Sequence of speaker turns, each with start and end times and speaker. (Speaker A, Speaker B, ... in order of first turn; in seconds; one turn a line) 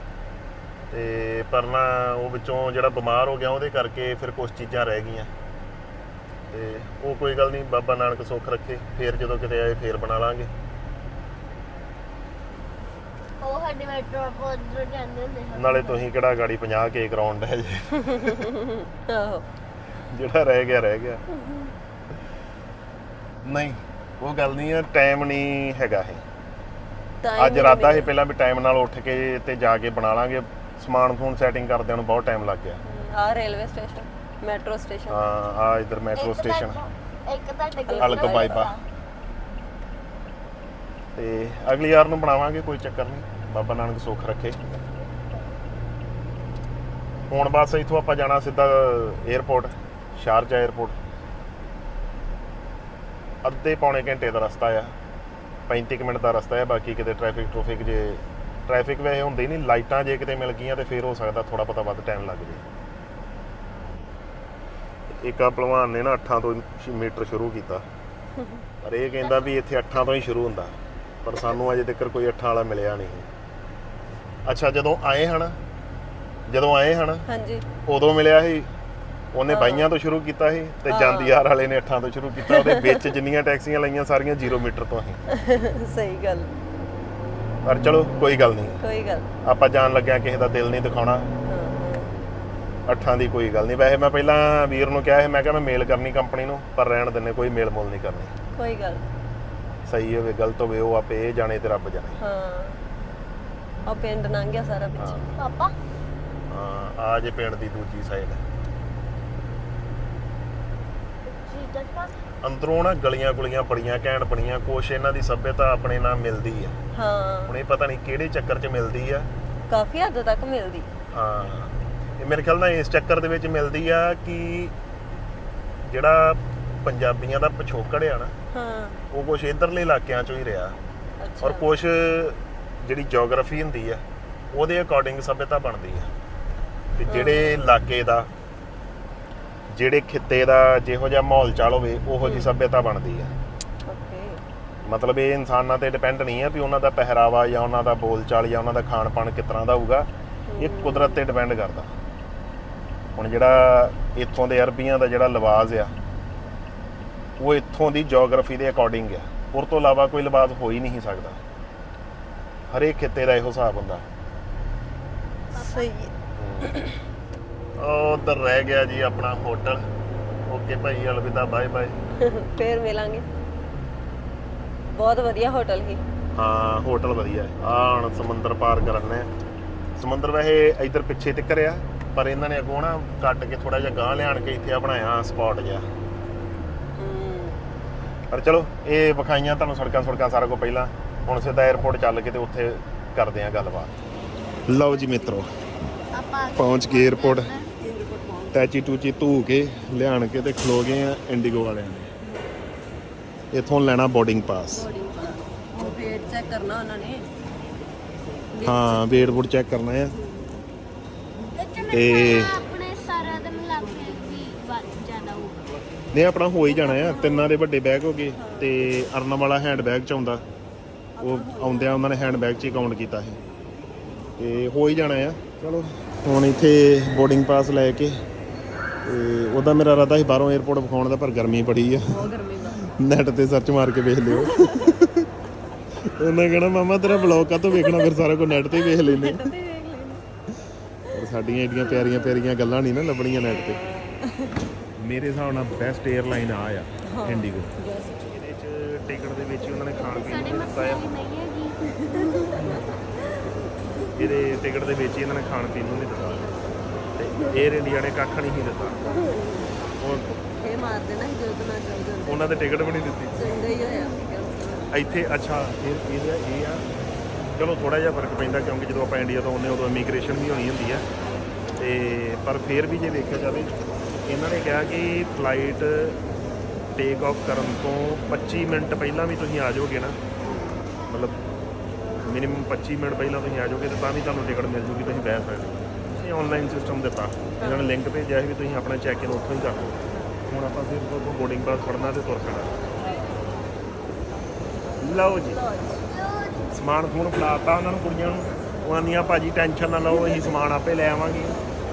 Speaker A: 0.9-5.3
Speaker A: 6.5-10.5
Speaker B: 13.4-16.1
Speaker A: 15.5-18.4
Speaker C: 18.1-19.5
Speaker A: 20.1-21.2
Speaker A: 23.4-26.2
Speaker C: 27.2-28.1
Speaker A: 27.4-32.8
Speaker C: 32.8-35.2
Speaker A: 35.1-36.8
Speaker B: 36.1-38.8
Speaker C: 37.8-38.7
Speaker A: 38.0-38.7
Speaker A: 41.1-44.6
Speaker A: 47.3-51.0
Speaker A: 53.4-54.9
Speaker A: 55.7-62.6
Speaker A: 65.2-67.8
Speaker C: 68.3-68.6
Speaker A: 68.8-73.3
Speaker A: 74.5-75.5
Speaker A: 76.5-77.2
Speaker C: 77.3-77.7
Speaker A: 77.8-78.7
Speaker A: 79.3-85.2
Speaker C: 79.5-79.9
Speaker C: 80.9-81.4
Speaker C: 82.4-83.1
Speaker C: 85.3-86.5
Speaker A: 87.6-88.7
Speaker C: 88.8-89.3
Speaker A: 89.4-91.3
Speaker C: 91.5-92.1
Speaker A: 92.9-98.3
Speaker C: 98.5-99.1
Speaker A: 99.9-102.2
Speaker C: 102.2-102.8
Speaker C: 103.8-105.2
Speaker A: 105.0-105.3
Speaker B: 105.4-105.7
Speaker A: 106.5-108.4
Speaker B: 111.3-112.2
Speaker A: 112.4-116.8
Speaker C: 116.9-117.5
Speaker A: 117.5-119.3
Speaker C: 119.7-120.9
Speaker A: 121.1-124.7
Speaker A: 125.8-128.3
Speaker C: 128.5-129.0
Speaker A: 129.1-130.8
Speaker C: 131.2-131.7
Speaker A: 131.4-136.1
Speaker A: 137.0-138.3
Speaker C: 137.1-137.6
Speaker A: 139.7-143.3
Speaker C: 142.2-142.5
Speaker C: 143.8-144.4
Speaker A: 144.9-150.1
Speaker C: 150.5-151.2
Speaker A: 150.6-151.9
Speaker A: 153.2-155.9
Speaker A: 157.4-161.4
Speaker A: 162.7-164.1
Speaker C: 165.5-166.1
Speaker A: 166.4-166.7
Speaker A: 167.8-169.8
Speaker A: 170.5-171.9
Speaker C: 172.2-173.3
Speaker C: 174.9-176.0
Speaker A: 176.4-179.3
Speaker A: 180.0-185.8
Speaker C: 187.0-187.6
Speaker A: 188.3-193.9
Speaker A: 194.7-195.5
Speaker C: 194.7-195.6
Speaker B: 196.1-197.7
Speaker A: 196.5-197.5
Speaker C: 197.8-198.7
Speaker A: 198.5-202.1
Speaker C: 202.2-202.5
Speaker A: 203.5-204.8
Speaker C: 204.7-207.3
Speaker C: 208.5-209.4
Speaker A: 208.6-210.1
Speaker C: 210.2-210.5
Speaker B: 211.5-215.7
Speaker A: 211.9-212.6
Speaker A: 216.1-220.4
Speaker C: 216.8-217.4
Speaker B: 216.9-217.4
Speaker C: 218.3-218.9
Speaker C: 221.2-222.2
Speaker A: 221.2-223.4
Speaker A: 224.4-228.2
Speaker A: 229.0-232.1
Speaker C: 232.1-232.9
Speaker A: 232.9-235.2
Speaker C: 234.3-235.0
Speaker A: 236.0-239.5
Speaker C: 237.1-240.2
Speaker A: 241.1-243.8
Speaker C: 241.7-242.5
Speaker C: 243.4-244.6
Speaker A: 245.0-247.7
Speaker C: 247.1-248.3
Speaker A: 248.3-251.0
Speaker B: 250.0-252.5
Speaker C: 252.0-253.7
Speaker A: 254.2-256.4
Speaker A: 257.2-259.2
Speaker C: 259.1-259.7
Speaker A: 260.0-260.3
Speaker C: 260.3-262.6
Speaker A: 262.2-263.4
Speaker C: 263.3-264.9
Speaker A: 264.9-266.8
Speaker A: 267.6-271.0
Speaker A: 271.8-273.7
Speaker A: 274.2-276.2
Speaker A: 276.9-280.2
Speaker C: 280.4-280.9
Speaker A: 281.1-281.4
Speaker A: 282.2-292.7
Speaker C: 287.6-288.0
Speaker C: 293.1-293.4
Speaker A: 295.0-295.6
Speaker C: 295.2-296.1
Speaker B: 296.1-296.8
Speaker A: 296.7-301.6